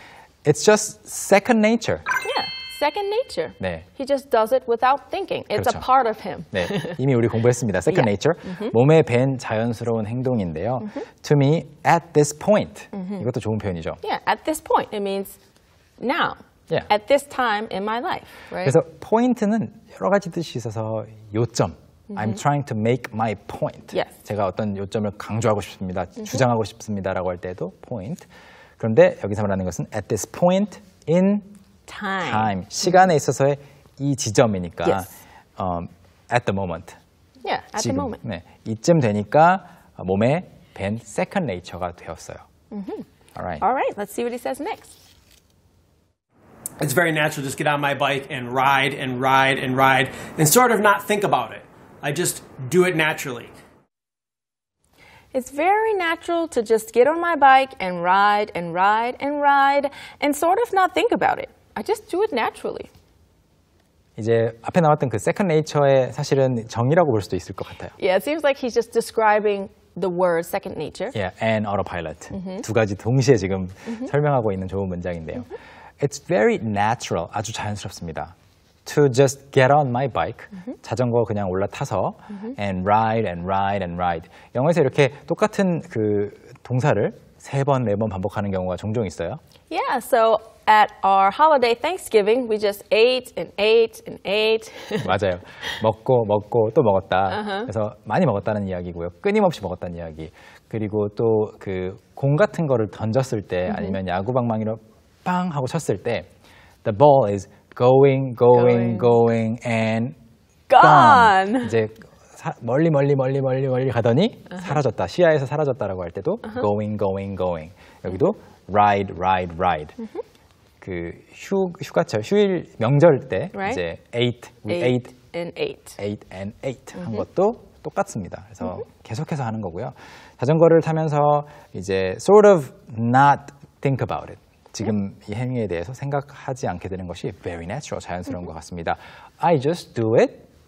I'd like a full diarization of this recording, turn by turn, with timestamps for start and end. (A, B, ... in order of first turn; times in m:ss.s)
0:00.4-0:02.1 A
0:02.2-0:07.0 B
0:03.6-0:03.9 A
0:05.5-0:05.8 A
0:06.5-0:14.0 A
0:07.9-0:08.7 B
0:12.9-0:13.2 B
0:14.0-0:15.4 B
0:16.0-0:18.8 B
0:18.6-0:28.3 A
0:28.8-0:31.5 A
0:31.9-0:32.5 B
0:32.2-0:37.0 A
0:37.4-0:38.2 B
0:37.8-0:42.4 A
0:42.7-0:43.1 B
0:43.4-0:43.6 A
0:43.6-0:45.0 B
0:46.8-0:53.5 C
0:55.3-1:02.9 B
1:04.2-1:07.9 A
1:08.0-1:11.2 B
1:11.1-1:18.3 A
1:12.3-1:12.6 B
1:18.9-1:29.4 A
1:29.7-1:35.1 B
1:35.0-1:46.3 A
1:37.3-1:37.7 B
1:43.7-1:44.0 B
1:46.8-1:50.2 A
1:48.5-1:49.2 B
1:50.7-1:51.8 B
1:50.8-1:59.9 A
2:00.8-2:05.1 A
2:03.5-2:03.8 B
2:04.7-2:06.0 B
2:06.0-2:20.5 A